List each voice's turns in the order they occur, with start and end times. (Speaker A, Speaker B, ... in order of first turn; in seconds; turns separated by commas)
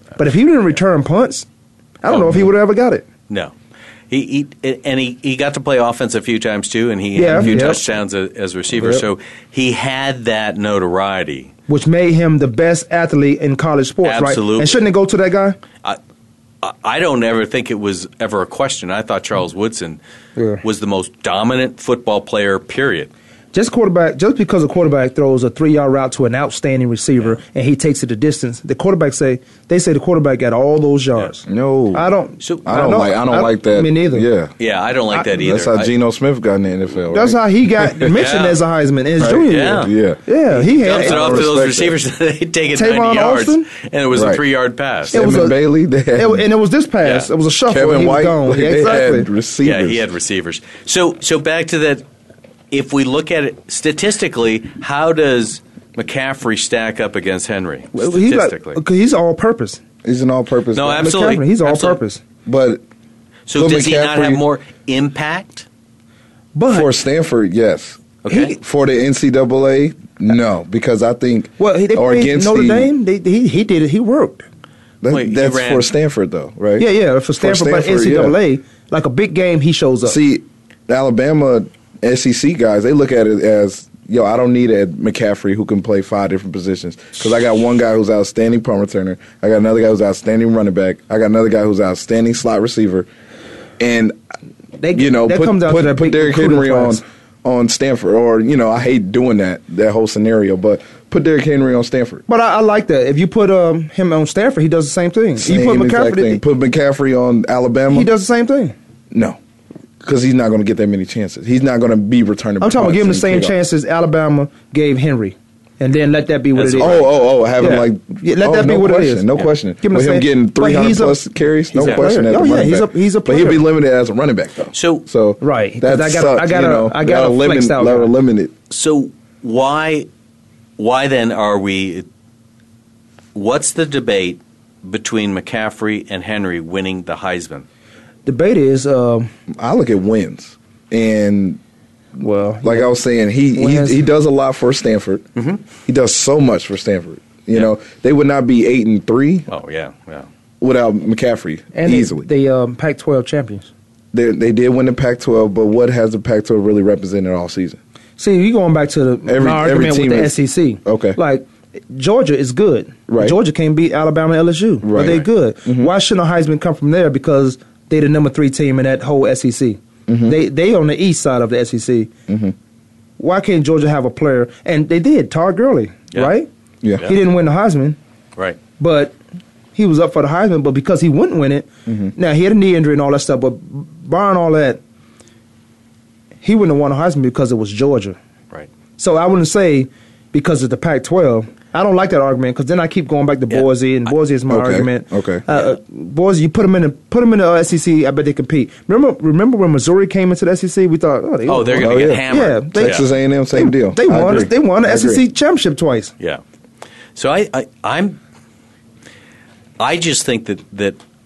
Speaker A: 0.2-1.4, Speaker A: 2.0-3.0, Speaker B: 2.1-2.5, Speaker B: 4.1-11.5, Speaker A: 7.1-7.8, Speaker C: 7.4-7.8, Speaker A: 8.8-9.0, Speaker A: 11.7-15.6, Speaker B: 14.0-14.7, Speaker B: 16.6-20.0, Speaker B: 20.6-23.1, Speaker A: 23.5-34.2, Speaker C: 31.5-32.1, Speaker C: 32.6-34.5, Speaker B: 34.6-35.9, Speaker C: 35.3-38.1, Speaker A: 37.1-41.5, Speaker B: 38.1-38.6, Speaker C: 39.2-42.0, Speaker B: 39.5-39.9, Speaker B: 40.5-45.4, Speaker A: 42.7-43.7, Speaker C: 44.1-44.4, Speaker C: 45.0-46.4, Speaker A: 45.1-45.6, Speaker A: 46.1-49.3, Speaker B: 47.0-47.3, Speaker C: 47.7-50.0, Speaker B: 49.6-52.0, Speaker B: 52.7-58.8, Speaker A: 57.9-59.8, Speaker C: 60.0-61.1, Speaker B: 60.7-62.0, Speaker A: 60.9-62.2, Speaker C: 62.4-62.8, Speaker B: 63.5-65.7, Speaker C: 63.5-64.4, Speaker A: 66.5-66.9, Speaker C: 66.7-72.9, Speaker B: 68.2-68.5, Speaker A: 71.6-74.4, Speaker C: 75.0-78.4, Speaker B: 75.1-75.9, Speaker A: 76.8-80.2, Speaker C: 80.0-93.1, Speaker C: 93.8-94.1, Speaker A: 94.8-97.0, Speaker C: 94.9-102.2, Speaker A: 102.3-106.4, Speaker C: 105.4-108.1, Speaker A: 107.9-108.7, Speaker C: 109.1-109.4, Speaker C: 110.0-113.5, Speaker A: 112.6-117.0, Speaker B: 116.5-117.1, Speaker C: 116.7-128.5, Speaker A: 117.6-121.2, Speaker A: 121.7-123.6, Speaker B: 121.8-122.1, Speaker B: 124.7-125.0, Speaker A: 125.4-128.1, Speaker B: 128.7-130.1, Speaker B: 130.8-132.1, Speaker B: 133.3-137.7, Speaker A: 138.2-139.3, Speaker C: 139.6-141.6, Speaker A: 142.2-142.9, Speaker C: 142.6-145.2, Speaker A: 143.5-144.0, Speaker B: 145.3-145.6, Speaker C: 145.8-149.5, Speaker B: 149.5-150.3, Speaker C: 150.6-152.3, Speaker A: 151.7-153.7, Speaker C: 154.1-157.8, Speaker A: 158.2-172.1, Speaker C: 159.2-161.2, Speaker C: 163.1-163.4, Speaker C: 164.8-165.9, Speaker C: 170.1-170.4, Speaker C: 172.3-172.5, Speaker A: 173.2-176.5, Speaker A: 177.0-178.0, Speaker A: 178.8-179.2, Speaker A: 179.7-184.8, Speaker C: 181.9-182.1, Speaker A: 186.4-188.2, Speaker A: 189.0-206.1, Speaker C: 194.5-195.4, Speaker B: 201.5-203.1, Speaker C: 201.8-205.2, Speaker B: 207.1-208.2, Speaker B: 209.8-211.0